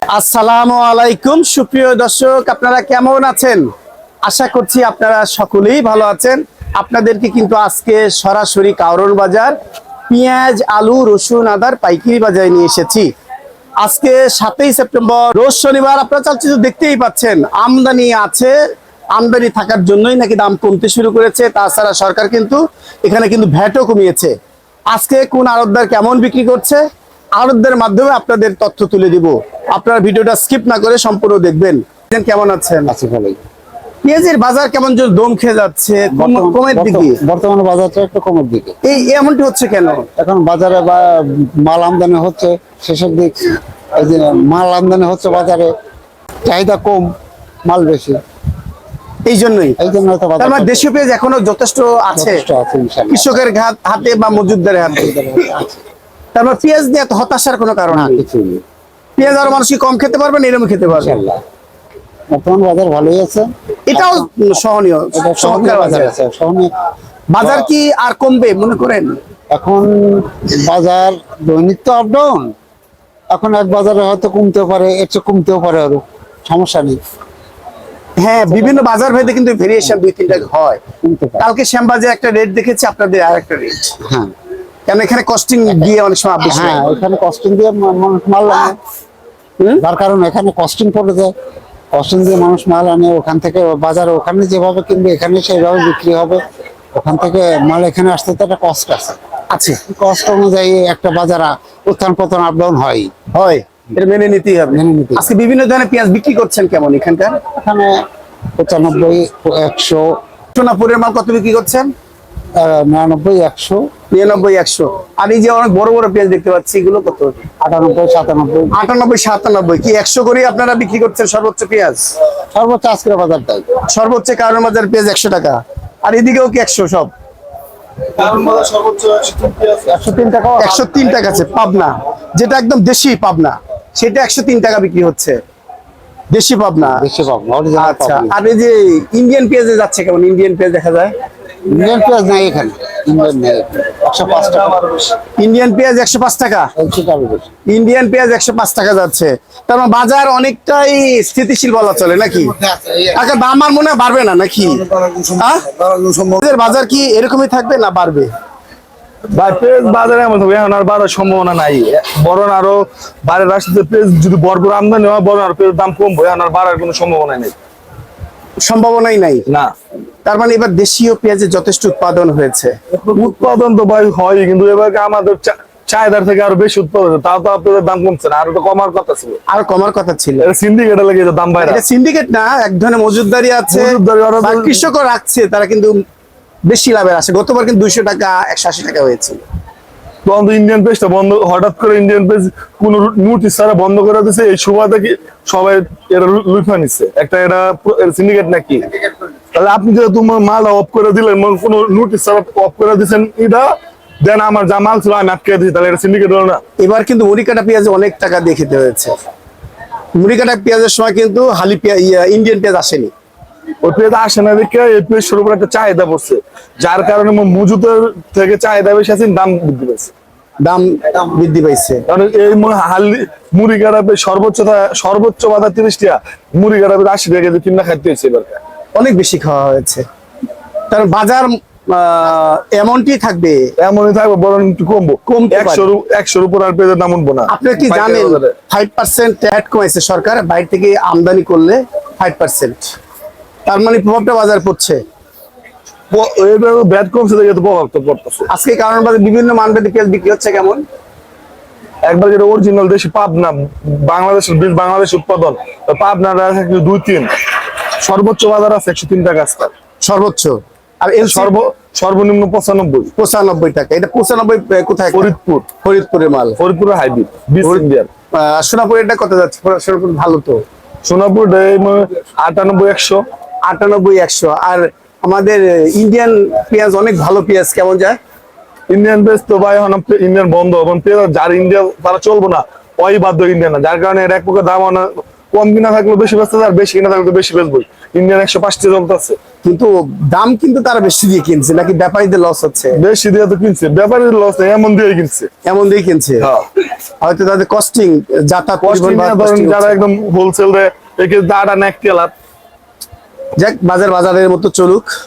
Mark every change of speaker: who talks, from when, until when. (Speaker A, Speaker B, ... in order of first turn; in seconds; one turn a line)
Speaker A: 0.1-3.6
Speaker A: 4.2-9.5
Speaker A: 10.1-13.1
Speaker A: 13.8-18.5
Speaker A: 19.1-24.3
Speaker A: 24.9-26.8
Speaker A: 27.4-32.9
Speaker B: 32.9-33.4
Speaker A: 34.0-37.2
Speaker B: 36.1-38.8
Speaker A: 38.8-40.1
Speaker B: 40.1-45.7
Speaker B: 46.4-48.2
Speaker A: 49.2-49.8
Speaker B: 49.8-50.9
Speaker A: 50.4-52.4
Speaker B: 52.1-53.4
Speaker A: 53.1-55.3
Speaker B: 54.6-55.8
Speaker A: 56.3-58.2
Speaker B: 57.9-58.6
Speaker A: 59.2-61.2
Speaker B: 60.9-61.4
Speaker B: 62.3-64.3
Speaker A: 63.9-66.1
Speaker B: 65.1-66.7
Speaker A: 67.3-69.2
Speaker B: 69.5-72.5
Speaker B: 73.3-77.0
Speaker A: 78.2-80.8
Speaker B: 78.5-78.8
Speaker B: 79.9-80.5
Speaker B: 81.0-81.4
Speaker A: 81.4-83.9
Speaker B: 84.0-84.3
Speaker A: 84.9-86.8
Speaker B: 86.5-88.8
Speaker B: 89.8-91.3
Speaker B: 91.9-96.4
Speaker B: 96.9-99.2
Speaker A: 99.5-99.8
Speaker B: 99.9-103.1
Speaker A: 103.3-107.4
Speaker B: 104.7-105.3
Speaker B: 107.5-108.0
Speaker B: 108.5-110.2
Speaker A: 110.5-111.9
Speaker B: 112.5-113.9
Speaker A: 114.1-117.4
Speaker B: 117.6-118.8
Speaker A: 118.7-122.1
Speaker B: 122.5-123.7
Speaker A: 123.9-127.1
Speaker C: 128.2-130.2
Speaker B: 129.9-130.9
Speaker A: 130.6-135.4
Speaker A: 136.3-137.0
Speaker B: 136.8-138.3
Speaker A: 137.8-141.1
Speaker B: 141.7-144.8
Speaker C: 144.2-145.1
Speaker A: 145.4-146.7
Speaker B: 146.8-147.5
Speaker A: 147.7-152.6
Speaker B: 152.5-153.1
Speaker A: 153.1-155.6
Speaker B: 154.9-156.4
Speaker A: 156.4-158.3
Speaker C: 159.3-167.5
Speaker A: 168.6-169.4
Speaker C: 169.5-169.7
Speaker A: 170.2-172.8
Speaker C: 173.0-179.4
Speaker A: 179.5-180.5
Speaker C: 180.4-181.8
Speaker A: 181.6-185.9
Speaker C: 183.7-184.9
Speaker A: 186.7-189.4
Speaker C: 190.2-198.9
Speaker C: 199.5-206.6
Speaker A: 206.8-209.2
Speaker A: 210.2-213.1
Speaker C: 213.8-220.1
Speaker A: 220.6-222.0
Speaker C: 222.1-228.6
Speaker A: 228.9-230.0
Speaker A: 230.9-233.6
Speaker C: 233.8-238.6
Speaker A: 235.3-235.9
Speaker A: 237.5-242.9
Speaker A: 243.7-245.0
Speaker C: 246.1-248.5
Speaker A: 248.5-250.8
Speaker C: 252.0-257.3
Speaker C: 258.0-259.7
Speaker A: 260.0-261.5
Speaker C: 261.2-263.1
Speaker A: 263.1-265.3
Speaker C: 265.1-265.7
Speaker A: 265.8-266.6
Speaker C: 266.6-268.1
Speaker A: 267.6-270.6
Speaker C: 271.0-273.2
Speaker A: 273.6-278.2
Speaker C: 278.9-289.4
Speaker A: 289.6-293.0
Speaker C: 292.9-295.5
Speaker A: 295.6-296.5
Speaker A: 297.2-300.0
Speaker C: 298.8-302.3
Speaker A: 303.6-305.1